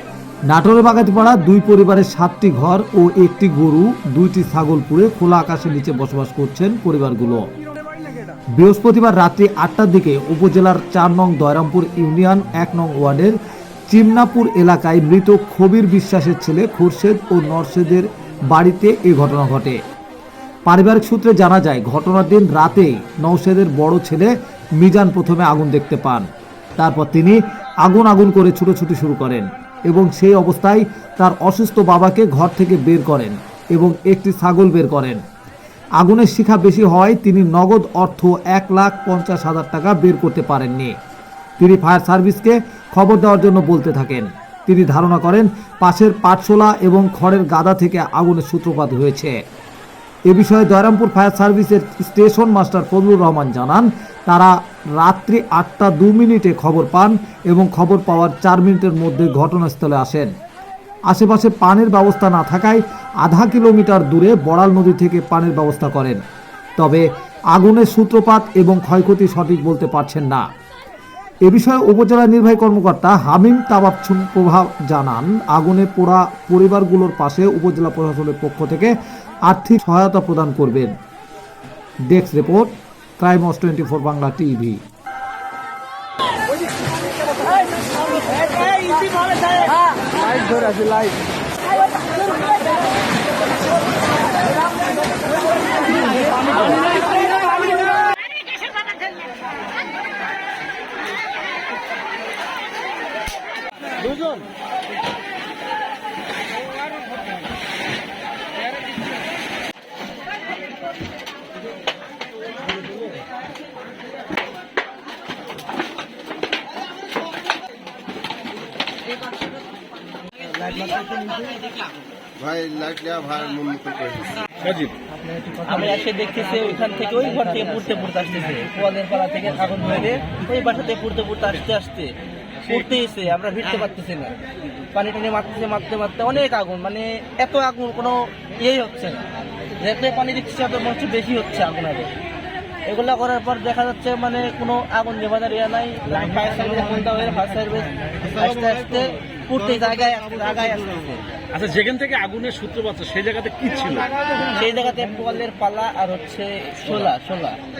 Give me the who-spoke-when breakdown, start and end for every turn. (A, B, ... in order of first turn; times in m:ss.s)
0:00.5-0:07.5 A
0:08.5-0:13.4 A
0:13.9-0:19.8 A
0:20.7-0:35.2 A
0:36.0-0:41.0 A
0:41.6-0:49.4 A
0:50.3-1:00.3 A
1:01.1-1:06.2 A
1:06.8-1:10.4 A
1:11.4-1:19.0 A
1:19.5-1:20.9 A
1:22.1-1:24.8 A
1:28.3-1:31.0 B
1:36.6-1:36.9 B
2:00.8-2:01.4 B
2:02.4-2:04.4 C
2:04.6-2:05.0 D
2:05.6-2:14.4 B
2:14.9-2:19.3 B
2:19.8-2:22.1 B
2:22.9-2:31.2 B
2:31.5-2:34.1 D
2:34.4-2:37.6 B